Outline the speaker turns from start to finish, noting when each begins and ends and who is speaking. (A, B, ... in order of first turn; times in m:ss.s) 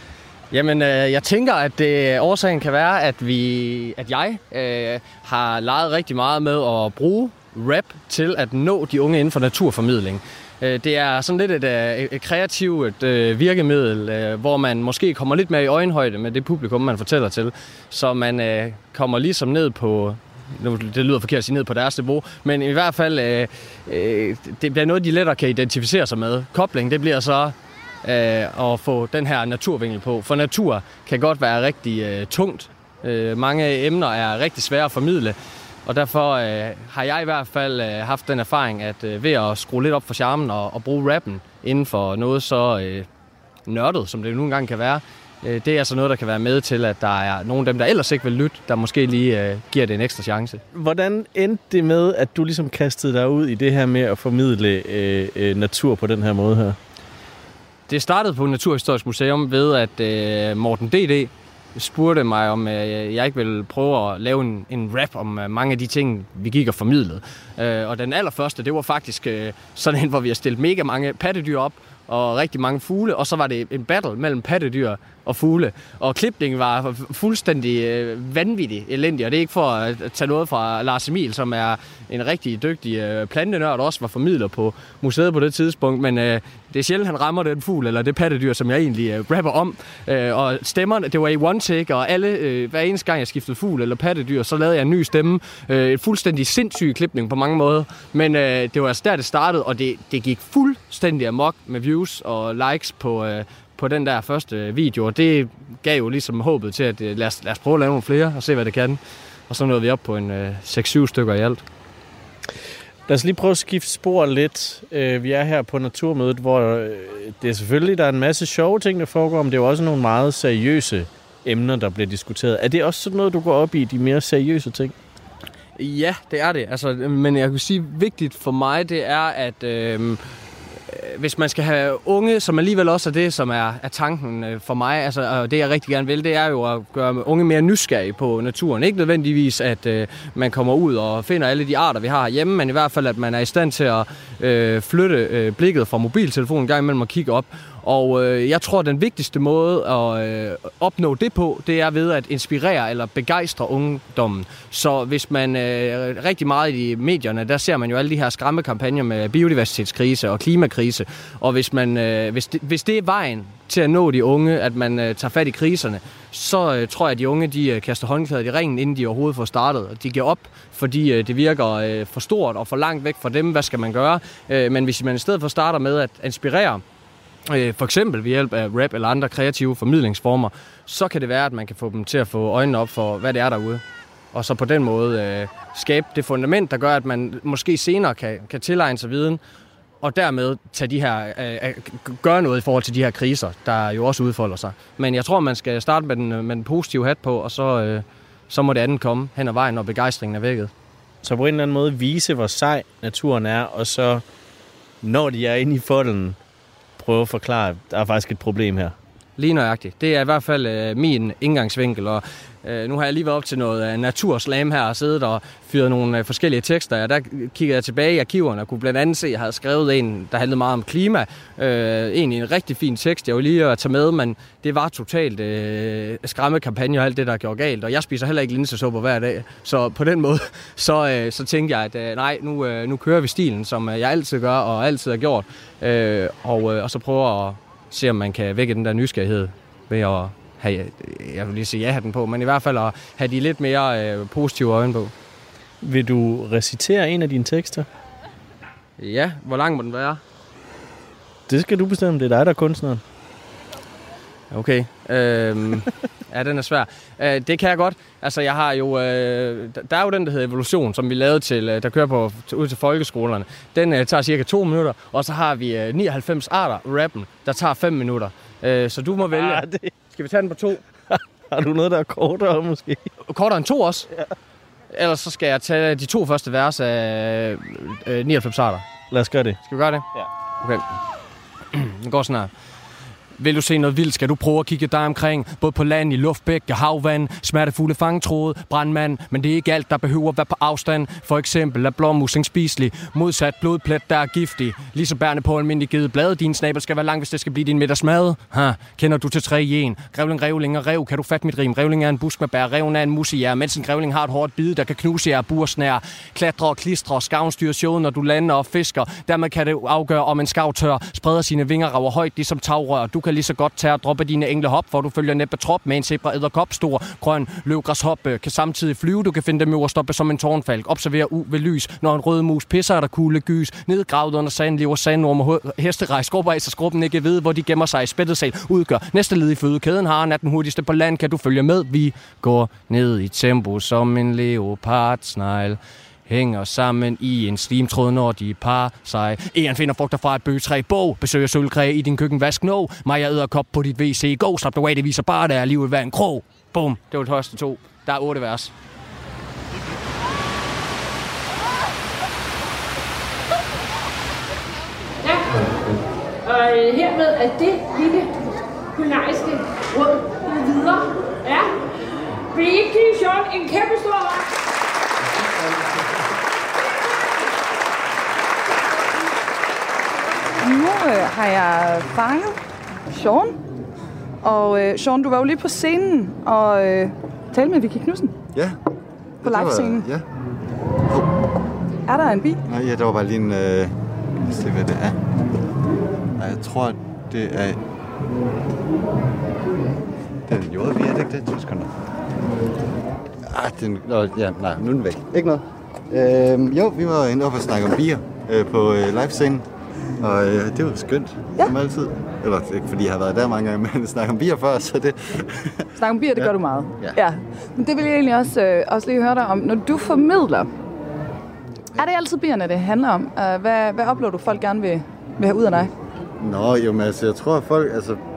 0:00.5-0:43.1 A
0:43.7-0:50.6 A
0:50.7-0:56.8 B
0:57.9-1:51.6 A
1:53.1-2:04.9 B
2:05.8-2:10.2 A
2:10.9-2:56.8 A
2:57.5-3:09.4 A
3:10.0-3:20.7 A
3:21.2-3:24.2 B
3:25.0-3:26.4 B
3:27.0-3:29.0 B
3:29.4-4:05.1 A
4:05.8-4:07.9 B
4:09.0-4:10.2 A
4:11.5-4:13.0 B
4:14.5-4:29.6 A
4:29.3-4:30.2 B
4:30.2-4:30.8 A
4:31.1-4:33.1 B
4:33.3-4:34.1 A
4:34.9-4:38.9 A
4:39.1-4:39.6 B
4:39.6-4:40.1 A
4:41.7-4:42.5 A
4:43.4-5:48.7 A
5:55.2-5:55.6 C
5:56.4-5:58.3 C
5:59.0-6:01.7 C
6:02.5-6:04.5 C
6:10.6-6:12.6 D
6:13.1-6:13.6 D
6:14.4-6:18.4 D
6:19.4-6:20.2 E
6:19.4-6:20.1 D
6:22.1-6:22.6 D
6:22.7-6:25.2 E
6:26.4-6:27.8 E
6:30.5-6:31.9 E
6:33.5-6:39.6 E
6:40.2-6:45.7 E
6:46.0-6:50.7 D
6:46.4-6:47.2 E
6:52.0-6:55.9 D
6:56.4-6:58.2 E